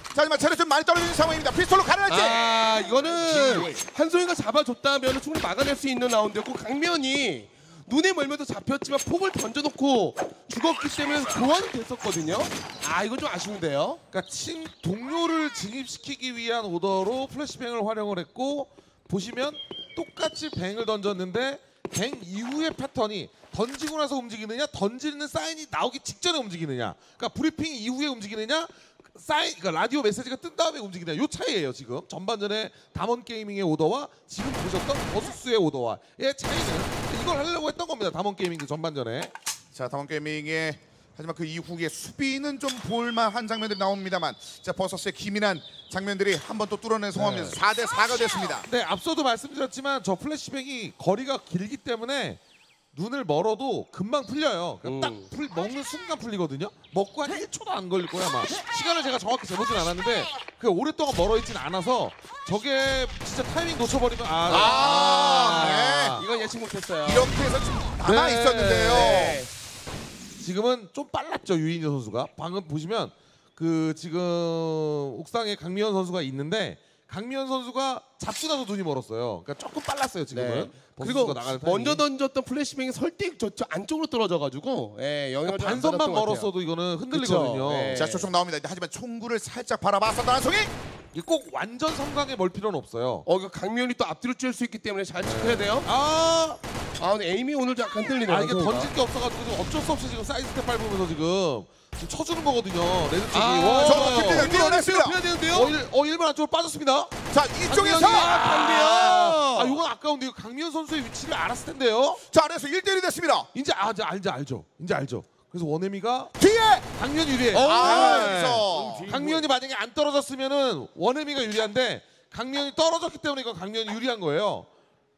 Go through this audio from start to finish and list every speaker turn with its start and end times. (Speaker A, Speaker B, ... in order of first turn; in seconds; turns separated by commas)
Speaker A: 0.1-3.8, Speaker B: 2.1-14.0, Speaker C: 14.1-39.3, Speaker A: 39.7-48.7, Speaker B: 47.1-47.6, Speaker C: 48.7-52.4, Speaker C: 52.9-66.2, Speaker B: 54.8-55.3, Speaker B: 64.4-67.3, Speaker A: 64.5-66.2, Speaker A: 67.0-69.4, Speaker C: 68.0-69.4, Speaker B: 68.8-69.5, Speaker C: 70.4-82.0, Speaker B: 80.3-86.5, Speaker C: 85.5-88.0, Speaker B: 87.1-88.3, Speaker A: 87.9-90.7, Speaker C: 91.1-93.2, Speaker B: 93.2-95.9, Speaker C: 95.2-96.6, Speaker B: 97.0-98.9, Speaker C: 98.3-104.5, Speaker B: 103.3-105.7, Speaker A: 103.7-105.2, Speaker C: 105.5-107.1, Speaker A: 107.3-109.2, Speaker C: 107.7-112.2, Speaker B: 107.7-109.8, Speaker A: 112.2-113.5, Speaker C: 113.5-116.3, Speaker A: 116.4-116.9, Speaker C: 117.0-124.7, Speaker B: 117.5-119.4, Speaker A: 117.5-119.2